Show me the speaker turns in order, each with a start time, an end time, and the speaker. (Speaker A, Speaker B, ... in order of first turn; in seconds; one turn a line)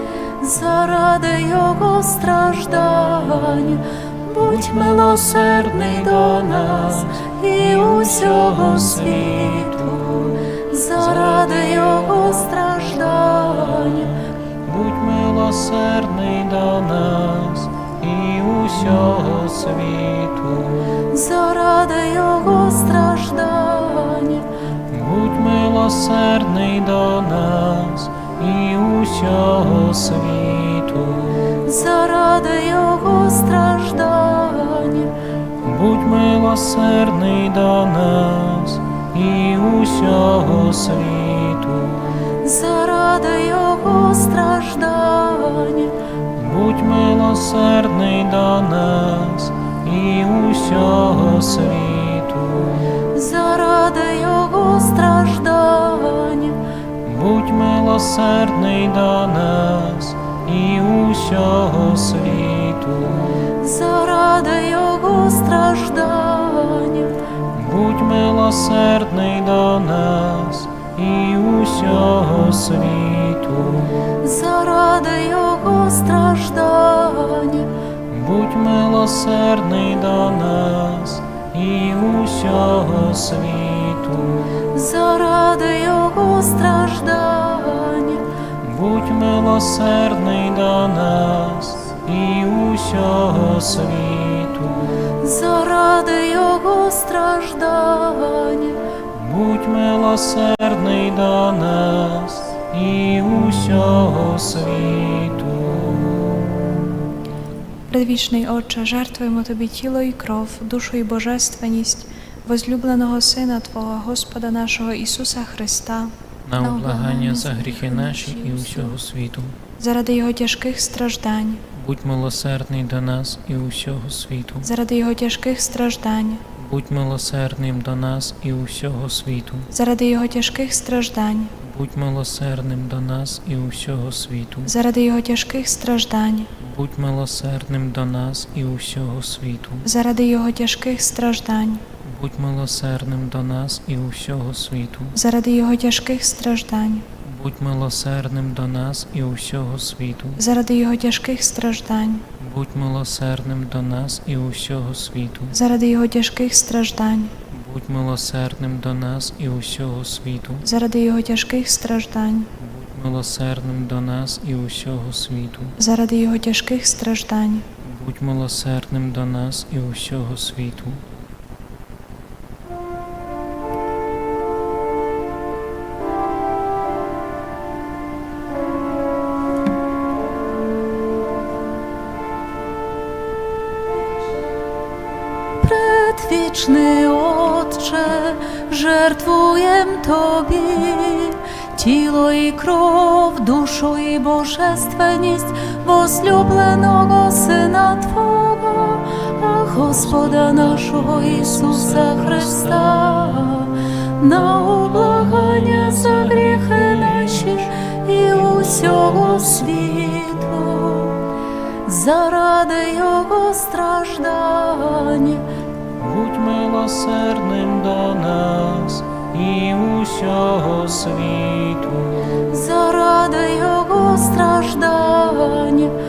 Speaker A: 0.4-14.2
Speaker B: 4.4-21.1
Speaker A: 21.1-24.5
Speaker B: 24.9-31.6
Speaker A: 31.6-35.1
Speaker B: 35.6-42.3
Speaker A: 42.4-46.0
Speaker B: 46.4-53.0
Speaker A: 53.1-56.6
Speaker B: 57.0-63.5
Speaker A: 63.5-67.2
Speaker B: 67.5-74.0
Speaker A: 74.2-77.7
Speaker B: 78.1-84.7
Speaker A: 84.7-88.3
Speaker B: 88.6-95.2
Speaker A: 95.2-98.8
Speaker B: 99.1-106.5
Speaker C: 107.9-116.1
Speaker B: 116.5-119.6
Speaker A: 116.6-119.0
Speaker C: 119.8-121.6
Speaker B: 121.7-124.7
Speaker C: 124.6-126.4
Speaker B: 126.6-129.7
Speaker C: 129.7-131.5
Speaker B: 131.6-134.7
Speaker C: 134.7-136.5
Speaker B: 136.6-139.9
Speaker C: 139.8-141.8
Speaker B: 142.0-145.2
Speaker C: 145.1-147.1
Speaker B: 147.2-150.4
Speaker C: 150.4-152.2
Speaker B: 152.4-155.6
Speaker C: 155.5-157.3
Speaker B: 157.5-160.7
Speaker C: 160.6-162.5
Speaker B: 162.6-165.8
Speaker C: 165.8-167.6
Speaker B: 167.8-171.0
Speaker A: 185.6-211.2
Speaker B: 199.9-203.5
Speaker B: 204.6-207.7
Speaker B: 208.3-210.7
Speaker A: 211.8-215.5
Speaker B: 216.0-222.5
Speaker A: 222.5-226.0